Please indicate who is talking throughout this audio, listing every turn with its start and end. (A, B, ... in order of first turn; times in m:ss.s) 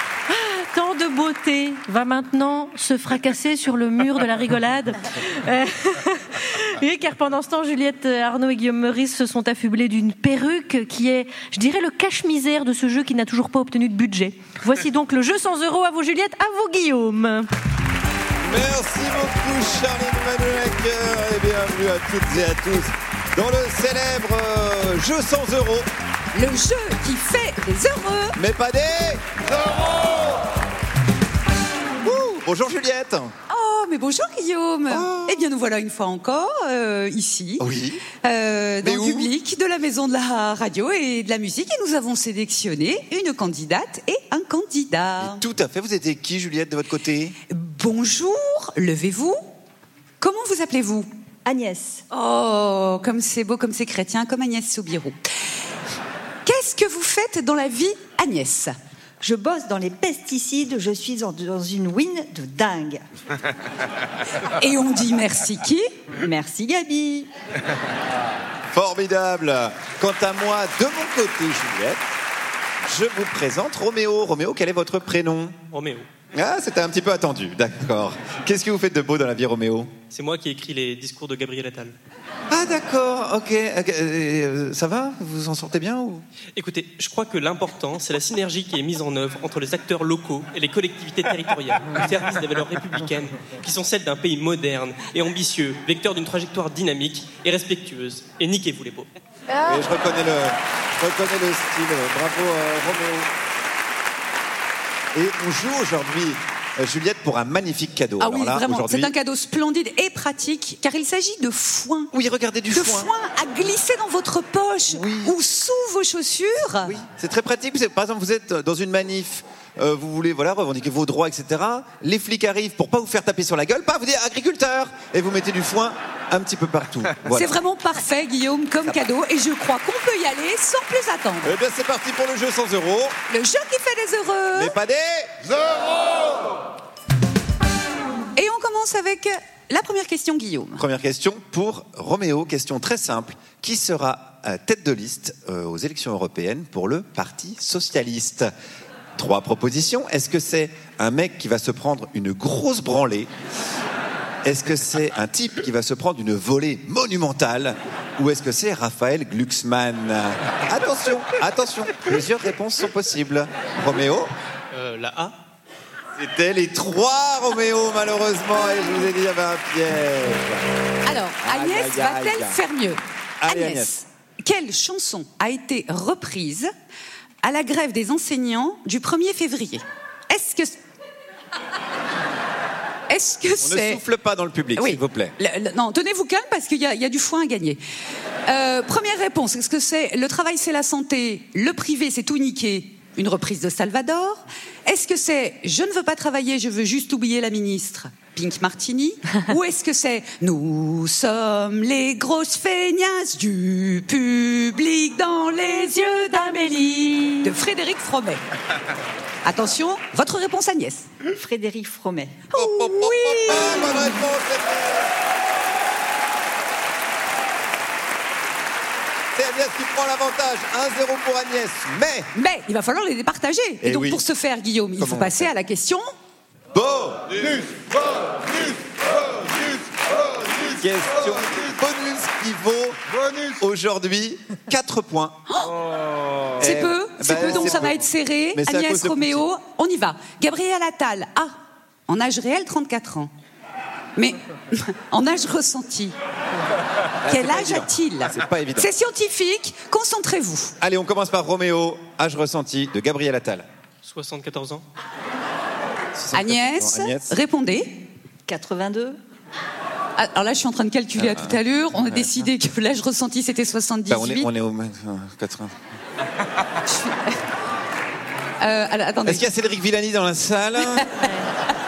0:00.3-0:17.5 A
0:18.4-0:25.9 B
0:26.3-0:28.4 C
0:28.4-0:29.2 B
0:32.0-0:33.3 B
0:33.5-0:37.6 C
0:34.9-0:35.5 B
0:37.6-0:38.0 B
0:38.2-0:45.4 C
0:38.8-0:39.3 B
0:45.2-0:47.4 B
0:47.5-0:49.4 C
0:50.2-0:51.1 C
0:51.4-0:52.0 D
0:52.1-0:55.1 C
0:56.4-0:58.7 C
0:59.2-1:03.0 D
1:04.5-1:05.8 C
1:06.2-1:07.3 D
1:08.7-1:12.1 B
1:12.8-1:15.6 B
1:15.7-1:16.0 E
1:16.3-1:19.9 B
1:20.1-1:21.9 E
1:22.5-1:26.2 B
1:26.6-1:39.1 E
1:39.5-1:43.3 B
1:45.1-1:49.1 B
1:48.2-1:52.1 C
1:52.1-1:53.1 B
1:52.7-1:56.9 C
1:54.9-1:55.3 B
1:56.8-2:07.6 B
2:07.3-2:11.5 C
2:11.4-2:13.1 B
2:13.3-2:14.7 C
2:14.5-2:15.3 B
2:18.4-2:20.8 C
2:20.8-2:28.5 B
2:29.2-2:33.3 B
2:34.4-2:44.3 B
2:44.7-2:45.4 E
2:46.2-2:52.6 B
2:51.0-2:56.7 C
2:53.4-2:53.9 B
2:57.4-3:00.8 C
3:03.1-3:04.0 C
3:03.6-3:05.3 B
3:04.8-3:07.8 C
3:08.4-3:28.4 C
3:26.2-3:27.5 A
3:29.4-3:31.1 C
3:31.4-3:32.4 D
3:32.5-3:34.2 C
3:32.5-3:35.1 B
3:39.3-3:42.3 B
3:42.3-3:46.0 C
3:43.8-3:44.2 B
3:45.0-3:45.5 B
3:46.7-3:47.6 B
3:50.7-3:53.0 B
3:53.5-3:55.4 B
3:56.6-3:59.4 B
3:56.6-4:01.5 C
4:02.1-4:03.3 C
4:04.2-4:06.1 C
4:07.2-4:08.9 B
4:07.2-4:10.7 C
4:10.8-4:13.6 B
4:14.0-4:14.8 E
4:16.1-4:17.3 B
4:16.3-4:17.9 C
4:18.5-4:19.2 D
4:20.2-4:24.5 C
4:21.2-4:22.3 B
4:24.1-4:25.8 B
4:26.8-4:27.4 C
4:28.6-4:29.4 C
4:29.2-4:31.1 B